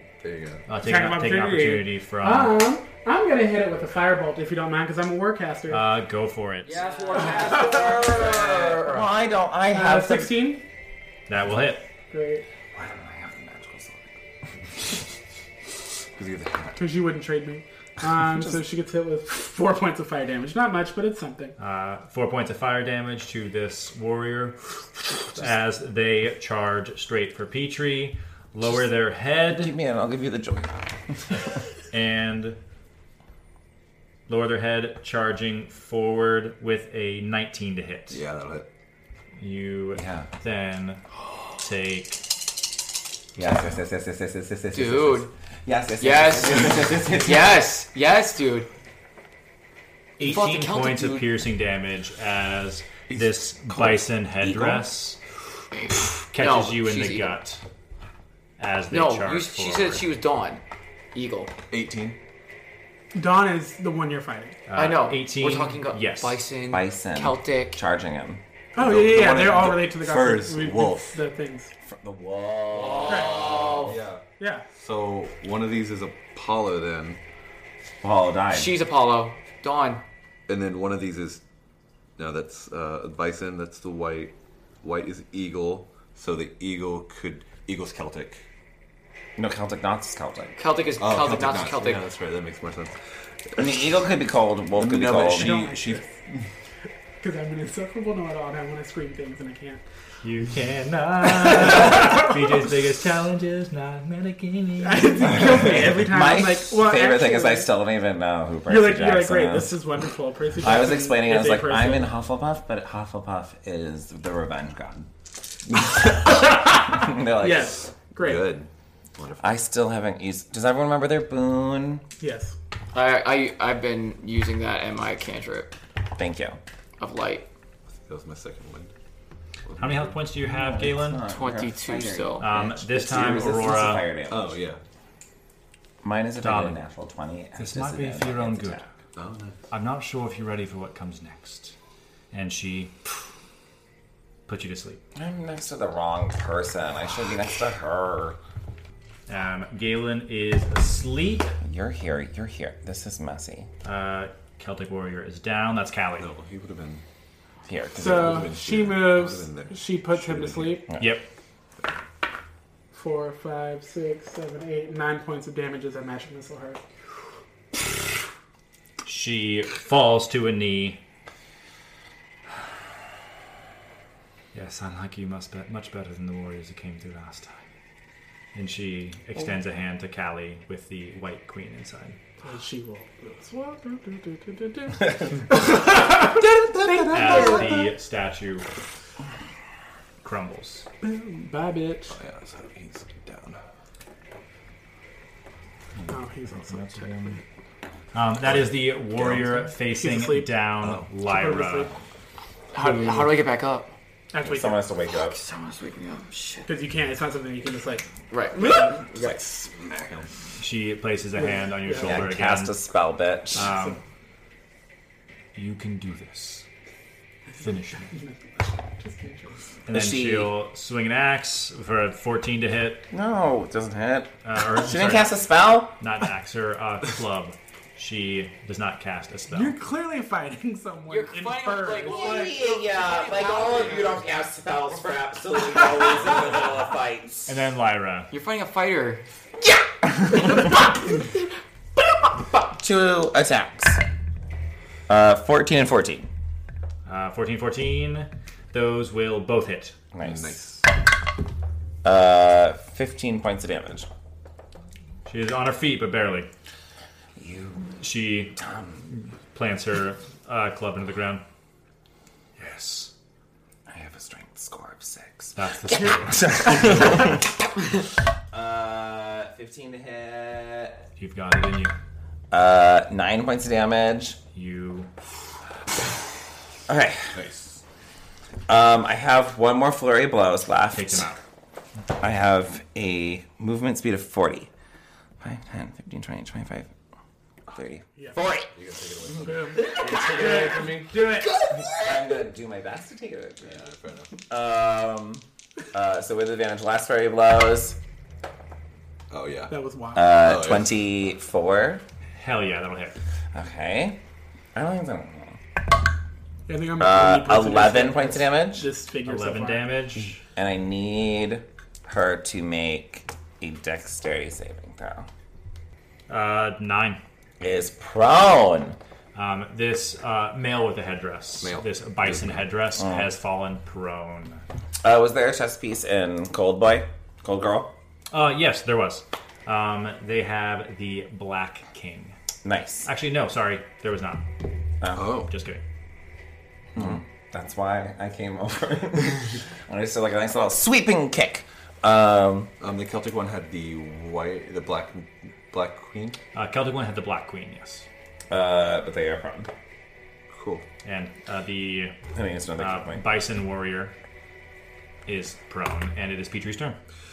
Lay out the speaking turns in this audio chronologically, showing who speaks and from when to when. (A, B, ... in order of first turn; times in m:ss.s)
0:00.2-0:00.7 A
0:00.7-0:02.7 B
0:00.8-0:05.8 C
0:05.7-0:06.8 B
0:06.6-0:09.1 D
0:07.1-0:10.5 E
0:07.2-0:07.7 C
0:09.7-0:10.6 C
0:11.3-0:11.8 B
0:12.1-0:12.4 C
0:12.7-0:14.1 E
0:16.2-0:16.8 A
0:16.8-0:21.6 C
0:21.6-0:24.6 B
0:25.3-0:29.7 B
0:29.5-0:31.4 E
0:31.9-0:32.6 B
0:34.3-0:38.2 B
0:38.1-0:38.7 A
0:39.4-0:41.0 B
0:40.0-0:40.3 E
0:41.6-0:42.2 B
0:43.4-0:47.6 E
0:44.7-0:45.3 D
0:46.0-0:48.7 D
0:50.2-0:51.3 D
0:50.2-0:55.2 B
0:53.1-0:54.0 A
0:54.4-0:54.8 E
0:55.7-0:57.4 D
0:56.2-0:57.6 B
0:58.6-1:00.0 B
0:58.9-1:00.6 D
1:01.1-1:01.5 D
1:01.7-1:02.2 A
1:03.1-1:04.6 C
1:04.7-1:06.4 B
1:04.7-1:07.8 D
1:06.7-1:08.4 E
1:08.7-1:11.7 C
1:08.8-1:11.2 A
1:11.8-1:13.9 E
1:12.7-1:13.9 D
1:13.1-1:13.3 C
1:13.8-1:17.2 A
1:14.4-1:14.6 C
1:18.0-1:18.7 E
1:18.5-1:20.0 D
1:20.5-1:21.4 A
1:22.2-1:28.4 A
1:29.4-1:30.6 E
1:30.6-1:32.0 D
1:31.0-1:33.0 A
1:33.6-1:35.6 E
1:34.8-1:36.4 A
1:35.3-1:36.1 C
1:37.2-1:39.8 C
1:40.2-1:45.8 B
1:44.8-1:47.7 C
1:45.3-1:49.8 E
1:48.7-1:52.1 C
1:50.6-1:55.1 E
1:55.7-1:57.8 E
1:57.2-1:58.5 C
1:58.2-1:59.5 A
1:59.4-2:02.0 E
2:02.2-2:02.5 C
2:02.9-2:05.7 D
2:06.2-2:06.6 E
2:07.0-2:07.5 D
2:07.9-2:08.9 A
2:09.6-2:10.1 A
2:09.8-2:11.2 B
2:10.4-2:14.6 E
2:11.3-2:12.5 D
2:12.4-2:14.0 B
2:14.3-2:14.8 A
2:16.0-2:18.9 E
2:16.4-2:16.8 B
2:17.6-2:18.8 B
2:19.2-2:19.6 A
2:19.7-2:21.7 B
2:22.3-2:23.0 B
2:24.5-2:25.0 B
2:25.1-2:28.4 E
2:29.3-2:31.5 B
2:31.6-2:33.7 E
2:33.8-2:36.3 B
2:36.2-2:37.0 A
2:37.7-2:38.5 E
2:37.9-2:40.8 A
2:37.9-2:40.9 C
2:41.0-2:41.3 B
2:42.9-2:46.8 C
2:49.0-2:51.0 B
2:54.5-2:57.6 B
2:58.5-3:02.2 B
3:02.4-3:07.9 C
3:07.1-3:08.7 B
3:10.2-3:10.9 B
3:11.0-3:12.2 C
3:12.1-3:13.6 A
3:16.0-3:17.4 B
3:16.1-3:17.4 C
3:18.1-3:21.9 B
3:18.5-3:19.7 A
3:19.9-3:20.6 C
3:20.8-3:21.1 A
3:21.2-3:21.9 C
3:22.7-3:23.9 D
3:22.8-3:23.3 C
3:24.3-3:24.8 C
3:24.4-3:25.4 E
3:25.1-3:26.7 D
3:26.6-3:28.1 C
3:28.3-3:29.4 D
3:28.6-3:28.9 C
3:29.1-3:30.3 A
3:30.6-3:32.8 B
3:31.4-3:32.3 C
3:32.0-3:33.7 E
3:33.5-3:34.0 B
3:33.6-3:34.0 C
3:35.5-3:36.6 B
3:37.6-3:38.1 B
3:38.1-3:39.6 C
3:39.9-3:43.0 B
3:39.9-3:40.5 E
3:43.1-3:46.0 E
3:44.4-3:45.4 B
3:46.0-3:49.8 B
3:49.5-3:52.6 C
3:51.1-3:54.2 D
3:52.0-3:57.6 E
3:57.5-3:58.3 B
3:58.3-3:59.2 D
3:59.6-4:01.0 E
4:02.3-4:04.0 E
4:05.1-4:06.3 E
4:07.0-4:10.0 B
4:10.1-4:10.6 E
4:10.2-4:10.9 A
4:12.0-4:14.1 E
4:15.2-4:16.5 B
4:17.4-4:17.9 E
4:18.0-4:21.4 B
4:18.6-4:19.1 E
4:22.6-4:23.1 B
4:23.9-4:27.5 E
4:25.5-4:26.8 B
4:28.5-4:31.0 E
4:31.2-4:31.9 B
4:32.5-4:34.4 E
4:34.5-4:35.1 B
4:36.9-4:37.4 E
4:37.3-4:37.8 A
4:38.7-4:41.3 E
4:40.9-4:41.4 B
4:42.2-4:44.7 E
4:45.4-4:46.9 E
4:47.7-4:48.7 E
4:48.2-4:48.4 C
4:48.7-4:51.2 A
4:49.4-4:51.7 C
4:51.9-4:53.8 E
4:53.6-4:54.4 A
4:54.5-4:58.0 E
4:59.3-4:59.8 A
4:59.7-5:00.3 C
5:00.1-5:02.0 E
5:00.3-5:00.9 A
5:02.4-5:03.2 B
5:03.5-5:04.2 E
5:04.7-5:05.6 E
5:06.7-5:09.9 C
5:07.0-5:08.9 E
5:09.2-5:10.4 B
5:10.5-5:15.3 E
5:16.3-5:17.2 B
5:17.6-5:19.0 E
5:19.3-5:24.6 B
5:21.6-5:22.7 A
5:23.0-5:23.3 E
5:25.0-5:27.9 E
5:28.3-5:32.4 B
5:32.6-5:33.1 E
5:33.0-5:34.5 B
5:35.0-5:35.4 E
5:35.1-5:35.5 A
5:35.3-5:35.8 B
5:36.9-5:37.2 A
5:37.0-5:42.7 E
5:42.8-5:46.4 A
5:46.5-5:48.0 B
5:48.5-5:49.7 E
5:50.5-5:50.8 A
5:51.0-5:52.2 B
5:52.3-5:53.2 E
5:52.8-5:54.1 B
5:55.2-5:57.0 B